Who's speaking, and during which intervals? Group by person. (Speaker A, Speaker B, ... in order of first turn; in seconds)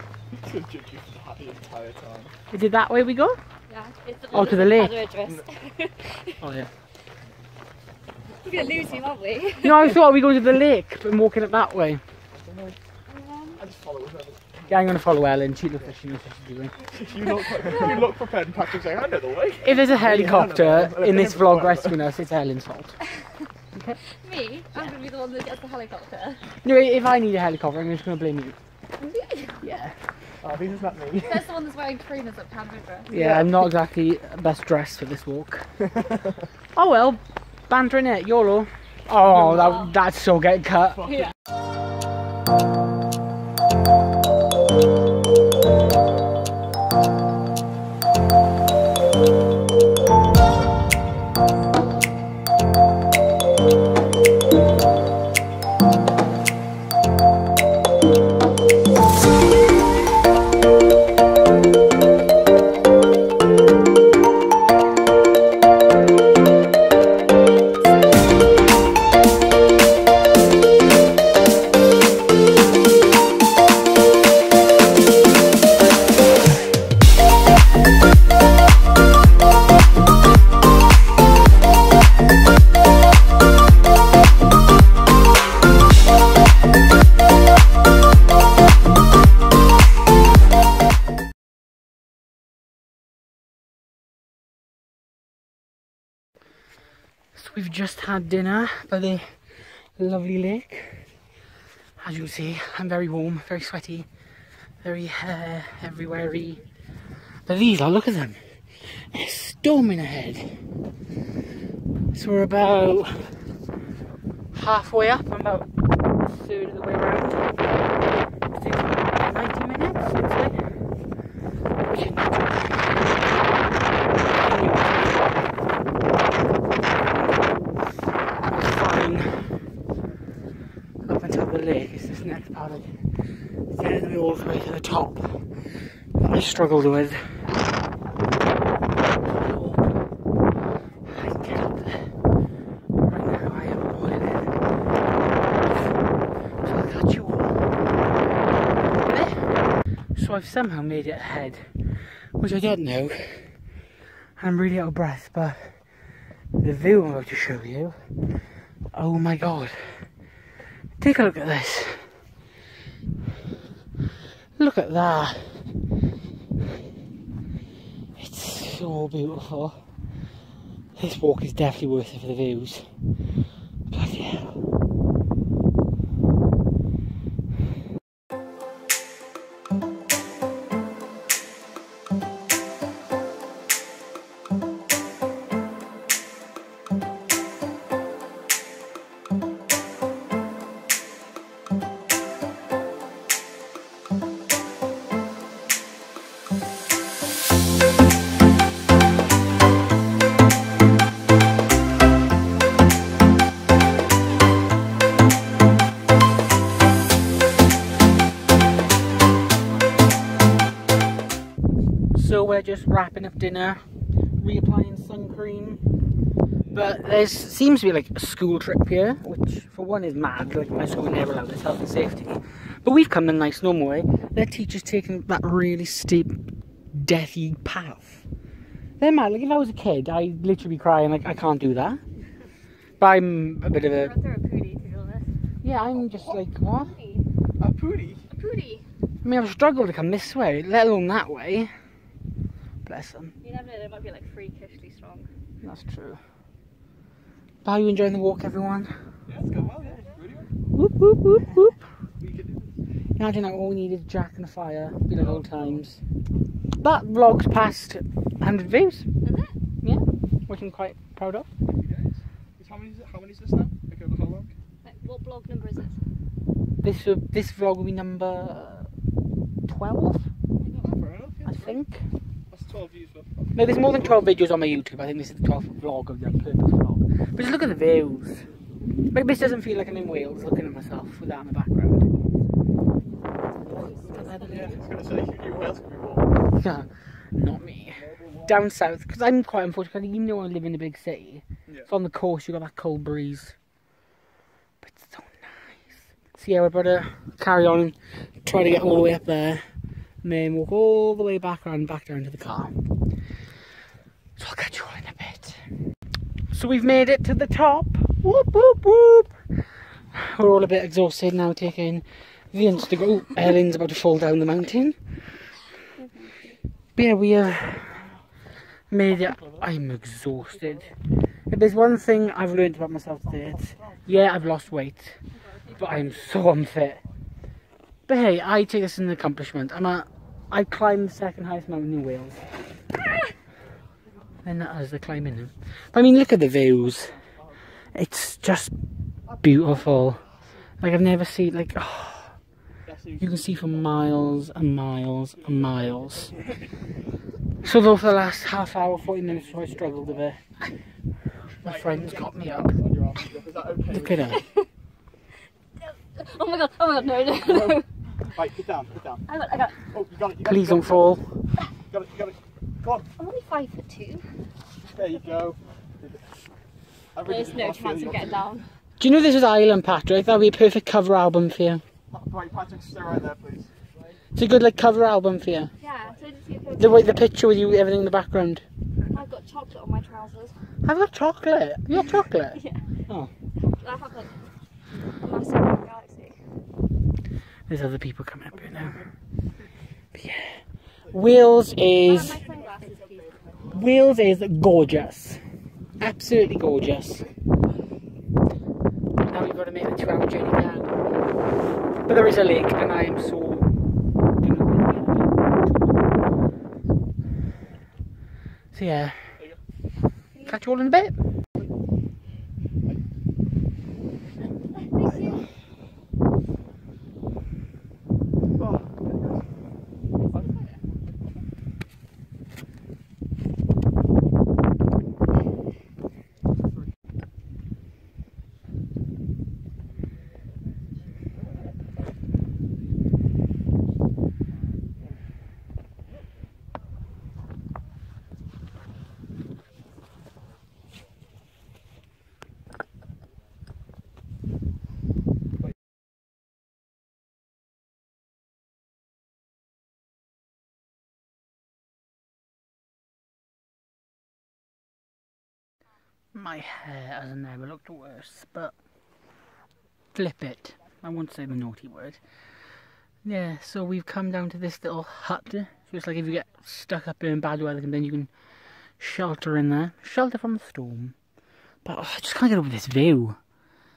Speaker A: 0.3-2.3, 12.3-12.8, 13.6-14.7, 16.9-22.0, 30.4-31.5, 33.1-33.6, 236.1-236.4, 237.6-238.3, 249.3-250.5, 252.2-252.8, 255.2-255.8, 261.7-264.6, 270.8-271.7, 272.5-273.6, 283.7-286.2, 342.9-343.7, 345.5-345.9, 351.6-354.4, 357.5-357.7, 358.3-359.3, 359.9-361.2, 361.9-363.1, 364.9-366.2, 367.1-368.2, 372.1-373.7, 418.6-419.4
Speaker B: 2.5-3.4, 4.3-5.0, 6.4-6.7, 9.6-12.0, 14.7-16.8, 19.6-22.9, 23.7-24.0, 26.6-28.6, 29.6-30.0, 33.1-35.7, 36.8-41.2, 97.3-101.1, 102.0-104.1, 104.8-106.6, 107.5-110.5, 112.1-113.3, 114.5-115.7, 116.2-120.7, 121.9-123.3, 124.2-125.3, 128.4-129.7, 131.1-132.9, 133.7-137.2, 139.2-139.8, 141.1-142.1, 143.0-144.5, 146.6-147.7, 148.8-149.5, 150.2-151.7, 152.4-153.6, 154.4-155.8, 156.6-158.0, 158.9-160.1, 161.0-162.1, 164.6-165.6, 168.2-169.8, 171.0-172.9, 173.9-174.6, 212.1-213.8, 214.4-215.8, 216.7-226.4, 226.9-228.2, 229.0-232.0, 233.0-234.1, 235.6-236.9, 239.2-241.7, 242.9-243.3, 245.6-246.2, 247.6-248.9, 250.7-251.8, 253.2-256.0, 256.8-259.1, 259.8-261.5, 266.8-268.9, 269.7-270.3, 271.4-272.0, 273.6-278.5, 279.1-282.1, 284.1-284.7, 286.6-293.6, 294.8-299.6, 300.2-302.7, 304.4-305.6, 306.5-309.3, 310.1-315.0, 317.0-318.0, 318.9-320.9, 321.5-325.2, 325.7-327.0, 328.1-332.4, 334.4-337.2, 337.9-338.7, 339.4-340.2, 340.8-342.4, 343.2-346.3, 347.6-350.4, 351.6-352.7, 353.9-354.4, 360.4-361.2, 369.0-371.8, 374.4-375.7, 376.8-378.6, 380.9-383.3, 387.7-389.1, 390.1-392.5, 393.6-395.4, 396.0-397.3, 399.2-401.2, 402.1-403.7, 404.4-405.3, 408.7-409.3, 410.4-411.1, 456.3-458.7, 460.1-462.2, 463.2-468.3, 469.0-471.2, 471.8-473.4
Speaker C: 3.7-6.4, 8.4-10.0, 13.1-13.6, 17.6-18.0, 24.2-26.4, 29.0-29.6, 31.2-33.1, 39.5-39.9, 233.8-235.3, 236.7-237.2, 238.3-238.8, 243.4-245.3, 259.2-259.6, 264.8-266.0, 283.6-284.8, 316.0-316.4, 354.3-354.7, 355.8-357.9, 359.3-359.8, 363.2-364.2, 367.2-368.7, 375.8-377.2, 379.1-380.5, 382.5-382.8, 383.6-384.4, 385.2-386.4, 392.0-393.7, 414.9-415.4, 420.3-420.6